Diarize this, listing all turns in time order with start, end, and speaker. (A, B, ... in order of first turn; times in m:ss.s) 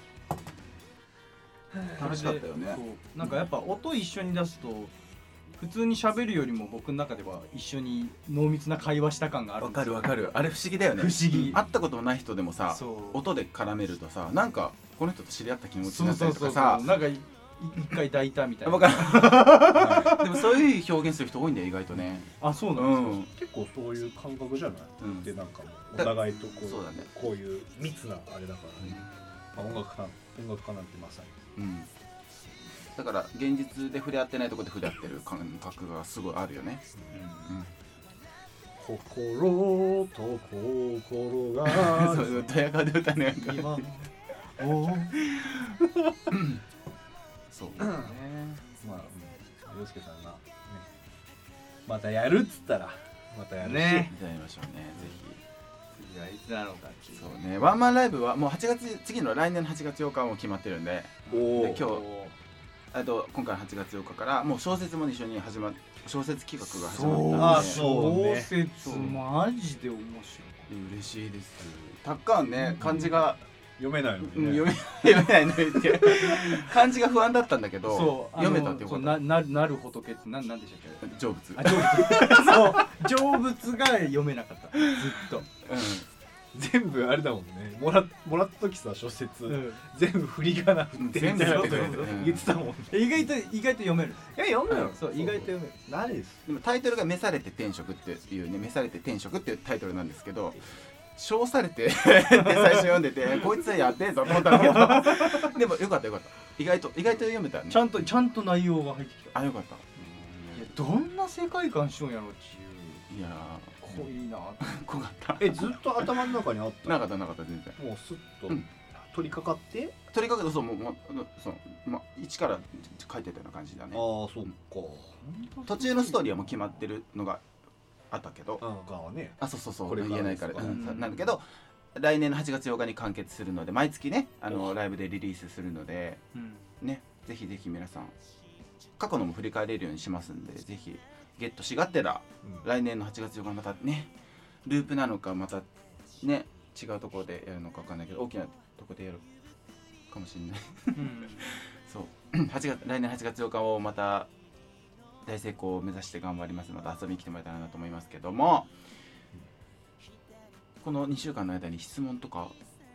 0:01.7-0:02.1 A
0:01.9-0:03.4 B
0:02.0-0:04.9 C
0:05.6-0:10.3 C
0:09.6-0:17.0 B
0:10.9-0:11.6 C
0:12.7-0:13.2 C
0:15.8-0:20.6 C
0:18.6-0:23.3 B
0:19.7-0:20.2 A
0:22.4-0:23.2 C
0:23.3-0:31.4 A
0:25.0-0:25.3 B
0:25.9-0:27.1 B
0:28.8-0:29.1 B
0:31.6-0:31.9 B
0:32.9-0:36.8 B
0:37.1-0:37.5 C
0:38.8-0:42.5 A
0:41.6-0:43.9 B
0:43.3-0:45.2 C
0:45.1-0:45.8 B
0:46.3-0:46.6 B
0:47.5-0:47.8 B
0:47.7-0:48.6 C
0:47.8-0:48.1 A
0:48.8-0:50.9 A
0:51.8-0:54.2 A
0:53.6-0:54.1 C
0:54.1-0:55.4 B
0:56.0-0:57.3 C
0:57.2-1:02.0 B
1:01.3-1:01.9 A
1:01.3-1:02.3 C
1:02.9-1:07.8 B
1:06.8-1:10.7 C
1:07.3-1:08.5 A
1:08.8-1:09.2 B
1:10.7-1:13.4 B
1:12.8-1:13.1 A
1:13.8-1:16.6 A
1:14.2-1:19.2 B
1:17.8-1:25.5 C
1:21.0-1:22.6 B
1:25.5-1:26.1 B
1:26.5-1:33.1 A
1:29.5-1:29.8 C
1:30.9-1:32.5 B
1:32.9-1:35.7 C
1:34.3-1:36.4 A
1:36.4-1:47.9 B
1:42.3-1:42.9 C
1:44.3-1:45.5 C
1:47.7-1:49.3 C
1:49.3-1:50.7 B
1:50.5-1:53.1 C
1:53.1-1:54.1 B
1:53.8-1:54.8 C
1:54.6-1:56.3 B
1:55.4-1:57.0 A
1:56.8-1:57.8 B
1:57.8-2:00.0 A
2:00.1-2:04.0 B
2:03.9-2:05.1 A
2:05.2-2:06.6 C
2:05.6-2:07.4 B
2:08.1-2:08.6 B
2:08.6-2:10.8 A
2:09.4-2:16.2 B
2:10.6-2:11.2 C
2:14.5-2:14.7 A
2:16.3-2:16.7 C
2:16.8-2:18.1 B
2:19.0-2:24.1 B
2:24.6-2:25.6 B
2:26.2-2:29.2 B
2:30.1-2:34.3 B
2:30.9-2:31.5 C
2:35.2-2:38.7 B
2:40.8-2:42.5 B